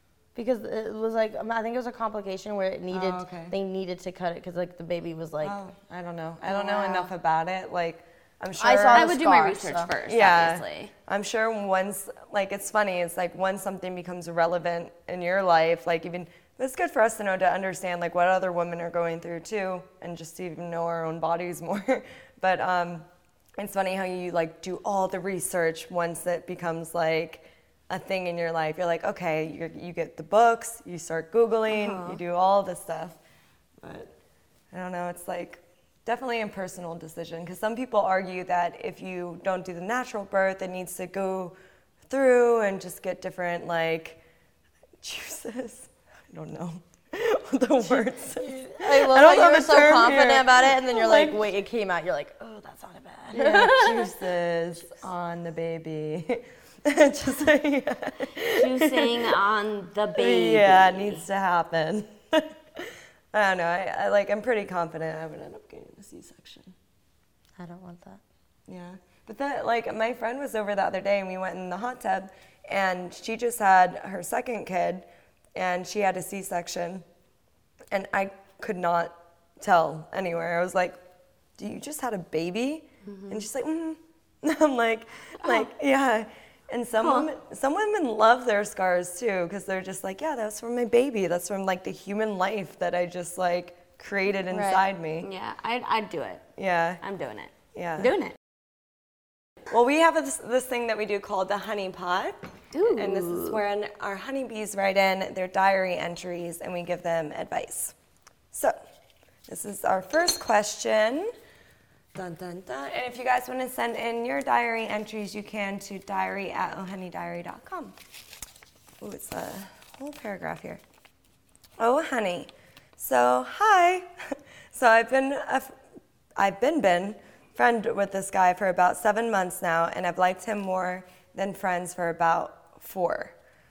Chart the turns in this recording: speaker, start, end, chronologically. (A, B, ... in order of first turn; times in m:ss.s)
0:00.3-0:05.6 A
0:02.9-0:03.5 B
0:05.4-0:09.1 B
0:06.5-0:07.1 A
0:08.6-0:09.9 A
0:08.9-0:10.9 C
0:10.0-0:33.2 B
0:31.7-0:32.2 C
0:33.8-0:34.1 B
0:34.7-0:41.5 B
0:42.1-0:44.2 B
0:45.0-0:51.5 B
0:48.4-0:54.1 A
0:53.3-0:59.4 B
0:58.4-1:01.2 C
1:00.2-1:06.7 B
1:07.6-1:08.2 A
1:08.7-1:17.0 B
1:17.9-1:21.0 B
1:21.6-1:35.3 B
1:23.1-1:23.4 C
1:27.0-1:27.3 C
1:34.5-1:34.8 A
1:35.2-1:36.4 C
1:36.6-1:37.0 B
1:37.0-1:38.4 C
1:37.7-1:38.1 B
1:39.7-1:47.9 B
1:42.7-1:43.6 C
1:48.5-1:48.8 B
1:49.5-1:51.3 B
1:52.1-1:58.0 B
1:59.0-2:00.8 B
2:01.8-2:05.7 B
2:06.4-2:13.3 B